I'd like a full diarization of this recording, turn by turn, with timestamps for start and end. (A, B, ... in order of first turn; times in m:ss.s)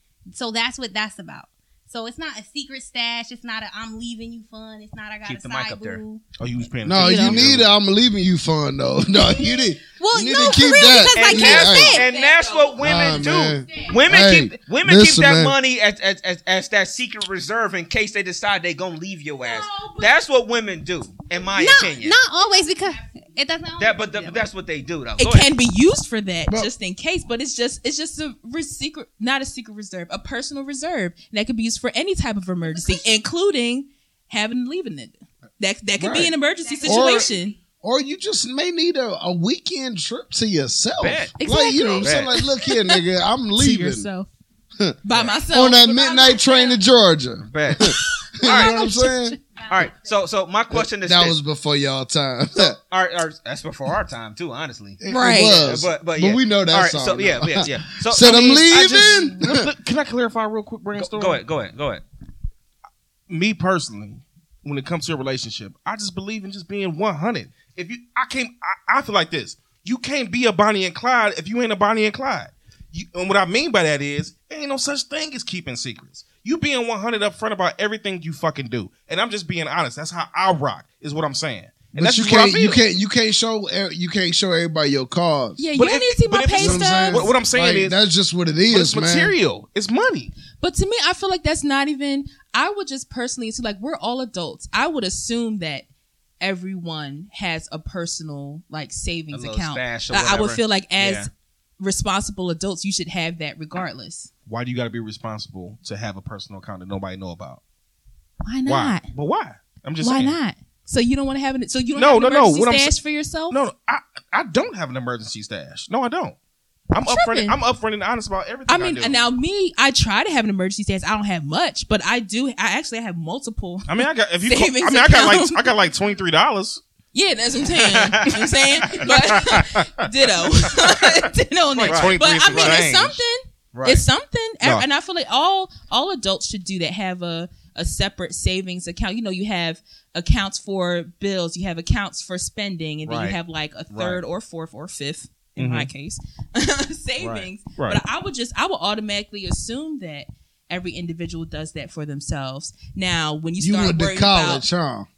0:00.3-0:06.3 A
0:05.2-0:06.0 B
0:06.4-0:07.8 C
0:06.8-0:12.0 D
0:07.0-0:07.4 E
0:09.3-0:12.1 A
0:11.1-0:22.2 B
0:12.0-0:12.7 E
0:12.8-0:15.6 D
0:19.4-0:20.2 E
0:21.5-0:24.5 A
0:23.8-0:25.5 B
0:25.2-0:37.6 E
0:36.0-0:37.3 D
0:36.6-0:37.5 A
0:37.8-0:44.1 D
0:41.0-0:41.3 B
0:41.4-0:43.0 E
0:42.0-0:42.3 B
0:43.5-0:44.3 E
0:45.0-0:46.7 E
0:45.5-0:49.4 D
0:47.4-0:48.8 B
0:48.3-0:49.4 E
0:49.7-0:51.4 B
0:50.7-0:52.8 D
0:52.6-0:55.0 B
0:55.0-0:59.7 D
0:55.1-0:55.6 E
0:55.5-0:59.0 B
0:58.9-1:01.4 C
1:01.0-1:02.0 B
1:03.3-1:22.8 C
1:21.9-1:25.6 D
1:25.6-1:27.3 E
1:25.7-1:28.0 C
1:26.6-1:29.3 D
1:28.7-1:30.3 C
1:30.6-1:35.9 E
1:36.4-1:44.3 E
1:39.3-1:41.3 B
1:44.5-1:47.6 C
1:48.4-1:49.1 E
1:48.6-1:50.4 C
1:50.0-1:53.6 E
1:51.9-1:52.9 C
1:53.5-1:56.4 C
1:56.9-1:59.2 C
1:57.0-1:57.6 E
1:58.7-2:05.7 E
2:03.9-2:06.8 C
2:07.1-2:34.6 E
2:07.9-2:08.4 B
2:08.8-2:10.9 C
2:11.8-2:13.2 C
2:11.8-2:12.9 B
2:13.7-2:14.0 B
2:23.1-2:23.4 B
2:23.9-2:24.2 B
2:25.6-2:25.9 C
2:27.2-2:27.5 B
2:27.8-2:28.0 C
2:33.6-2:35.1 D